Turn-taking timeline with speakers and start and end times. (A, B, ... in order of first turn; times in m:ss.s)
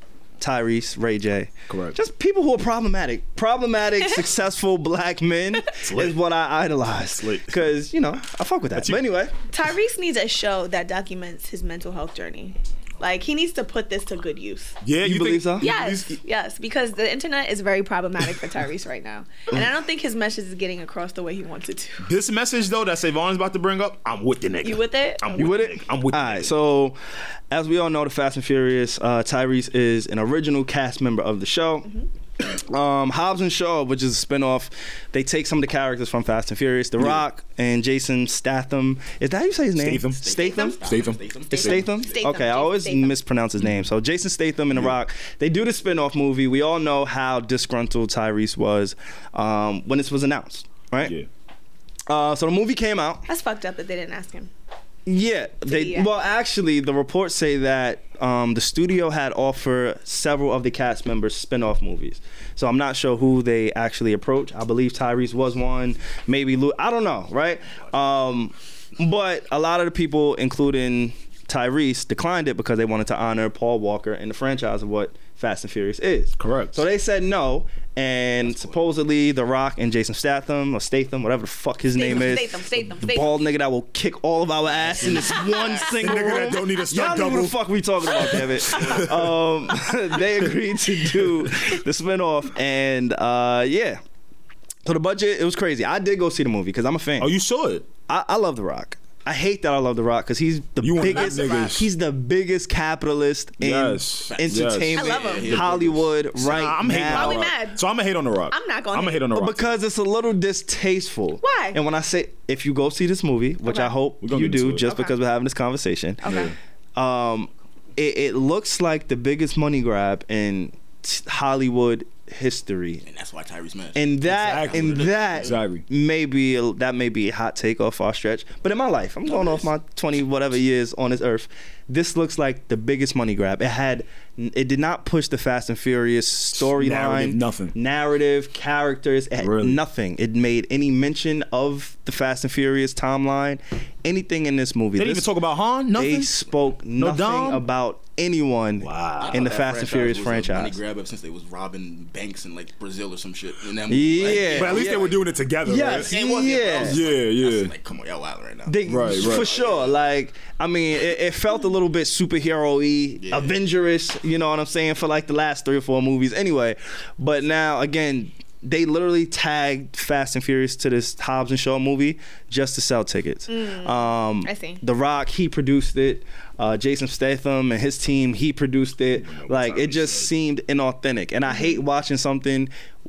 0:00.4-0:09.3 A
0:01.7-0:02.0 B
0:05.8-0:06.2 B
0:07.2-0:07.5 B
0:08.8-0:09.0 B
0:09.5-0:14.8 C
0:14.8-0:16.2 B
0:15.0-0:15.7 A
0:15.6-0:22.1 C
0:22.0-0:26.5 B
0:24.6-0:25.5 C
0:25.4-0:27.0 A
0:27.5-0:31.9 A
0:32.4-0:40.8 A
0:39.8-0:41.9 B
0:40.2-0:41.9 D
0:41.5-0:43.2 C
0:41.5-0:51.2 A
0:51.0-0:51.3 B
0:52.1-0:53.3 A
0:53.3-0:54.5 C
0:55.1-1:34.0 A
0:55.7-0:56.1 C
1:16.4-1:16.8 B
1:22.0-1:23.4 C
1:25.1-1:26.0 C
1:25.9-1:27.6 B
1:28.1-1:29.4 B
1:28.7-1:29.0 C
1:34.8-1:37.3 A
1:37.2-1:37.9 B
1:38.1-1:47.5 A
1:40.8-1:41.9 B
1:41.0-1:41.7 C
1:43.6-1:45.8 B
1:44.3-1:46.7 D
1:45.0-1:45.6 C
1:46.4-1:49.7 B
1:47.0-1:47.8 C
1:48.5-1:49.3 C
1:49.3-1:56.4 A
1:51.4-1:51.8 C
1:53.7-1:53.9 C
1:54.2-1:54.9 B
1:54.8-1:55.2 C
1:56.2-1:56.5 C
1:56.2-1:56.5 B
1:57.0-2:03.0 A
2:03.0-2:05.6 D
2:04.0-2:25.3 A
2:04.3-2:05.8 B
2:16.6-2:17.7 B
2:19.4-2:19.8 B
2:25.0-2:26.4 B
2:25.9-2:30.8 A
2:27.0-2:27.6 B
2:28.8-2:29.5 B
2:29.2-2:35.2 D
2:33.9-2:35.1 A
2:34.2-2:36.2 B
2:35.6-2:37.0 A
2:35.8-2:40.0 D
2:36.7-2:37.7 B
2:38.7-3:02.7 A
2:38.9-2:39.5 B
2:43.2-2:43.6 D
2:53.5-2:54.8 C
2:59.2-3:00.3 B
3:01.5-3:01.8 C